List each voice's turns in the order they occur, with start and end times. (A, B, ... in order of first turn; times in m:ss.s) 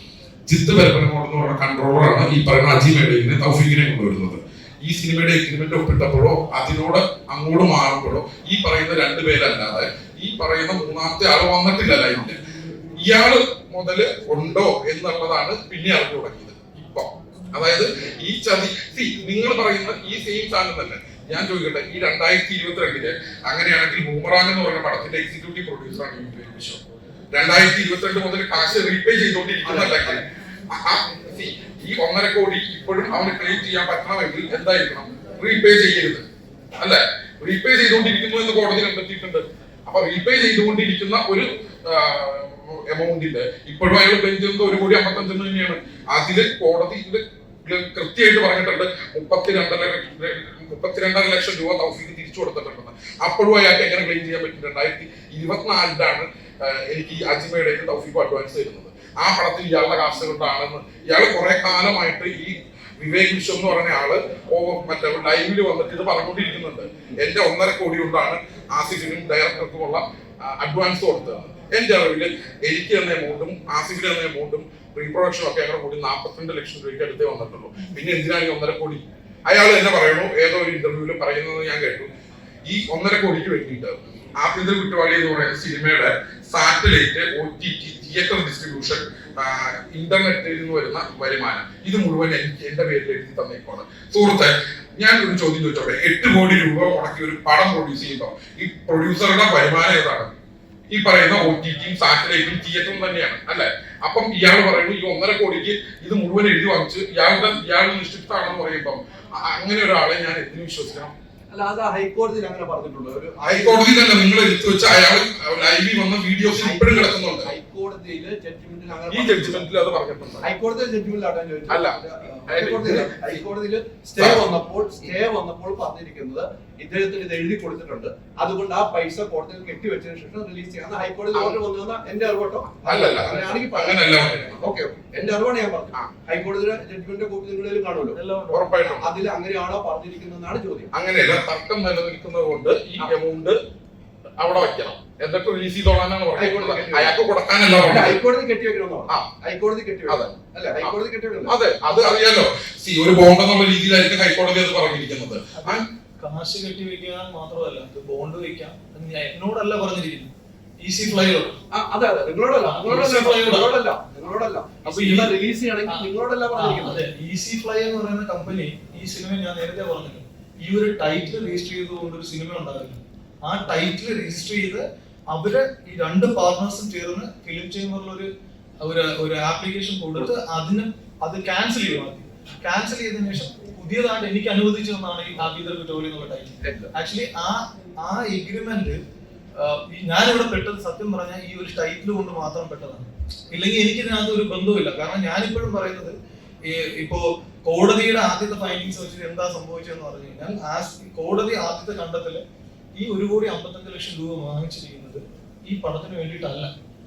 0:00.5-0:12.4 A
0:13.0-0:26.8 A
0:27.3-0:36.2 A
0:29.6-0:30.2 B
0:36.8-1:22.1 A
1:22.6-1:40.3 A
1:40.9-1:51.1 A
1:51.5-1:53.9 B
1:53.4-1:57.5 A
1:56.4-1:59.7 B
1:59.1-2:00.5 A
2:00.4-2:18.2 B
2:01.7-2:02.0 A
2:02.5-2:03.4 A
2:04.2-2:04.5 A
2:11.3-2:11.6 A
2:12.8-2:14.8 A
2:18.1-2:19.0 C
2:18.5-2:19.1 A
2:18.8-2:20.9 B
2:20.9-2:23.6 A
2:24.4-2:28.2 A
2:26.4-2:27.2 B
2:27.8-2:31.5 B
2:30.1-2:31.0 A
2:31.5-2:35.8 A
2:35.6-2:40.3 C
2:40.8-2:41.6 C
2:41.7-2:47.0 B
2:42.6-2:43.7 C
2:44.8-2:45.3 C
2:45.9-2:58.3 C
2:58.8-3:09.0 C
3:06.6-3:06.9 B
3:09.6-3:16.1 C
3:16.6-3:22.4 C
3:23.0-3:26.7 C